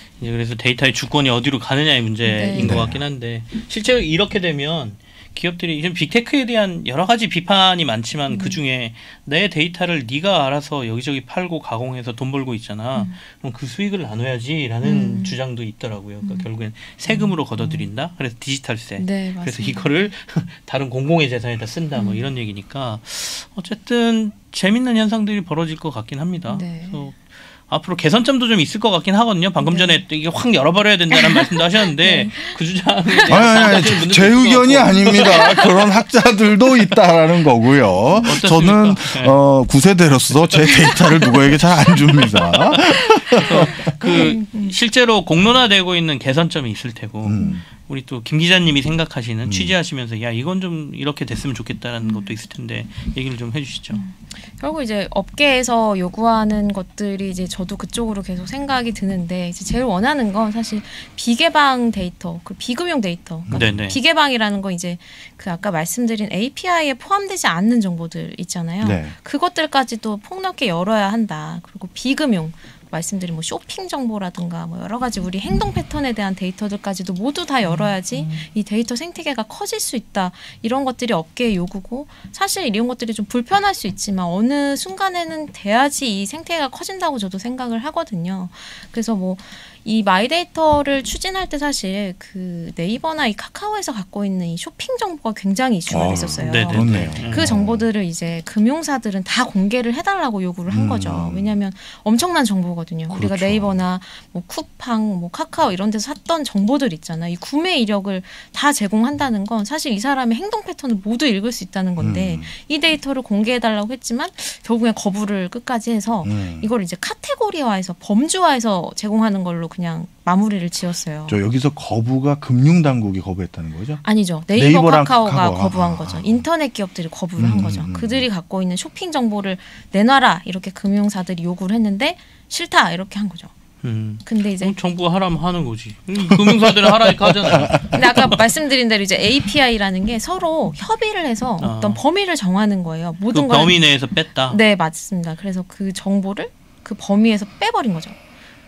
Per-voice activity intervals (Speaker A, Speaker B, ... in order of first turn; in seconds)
Speaker A: 0.2-35.7, 38.2-39.4, 40.3-41.4, 42.1-42.8, 43.4-54.0, 63.5-64.0, 96.4-97.5, 133.8-138.2, 141.6-142.0, 143.3-144.6
Speaker B: 2.2-2.8, 8.3-8.6, 14.8-15.4, 16.2-16.5, 17.1-17.9, 19.0-19.9, 21.9-22.2, 26.5-27.1, 29.6-30.0, 31.1-33.8, 35.0-35.7, 43.3-44.8, 47.4-47.6, 52.0-52.4, 53.9-121.4, 124.0-133.5, 134.2-134.7, 137.9-143.8, 144.5-148.1
Speaker C: 2.5-3.0, 33.3-44.3, 47.2-47.6, 49.4-49.7, 63.5-63.9, 68.8-69.1, 77.6-78.5, 95.9-97.9, 100.7-101.5, 103.1-103.8, 112.0-112.5, 116.2-116.7, 121.3-124.0, 124.5-126.4, 127.4-128.3, 136.2-138.0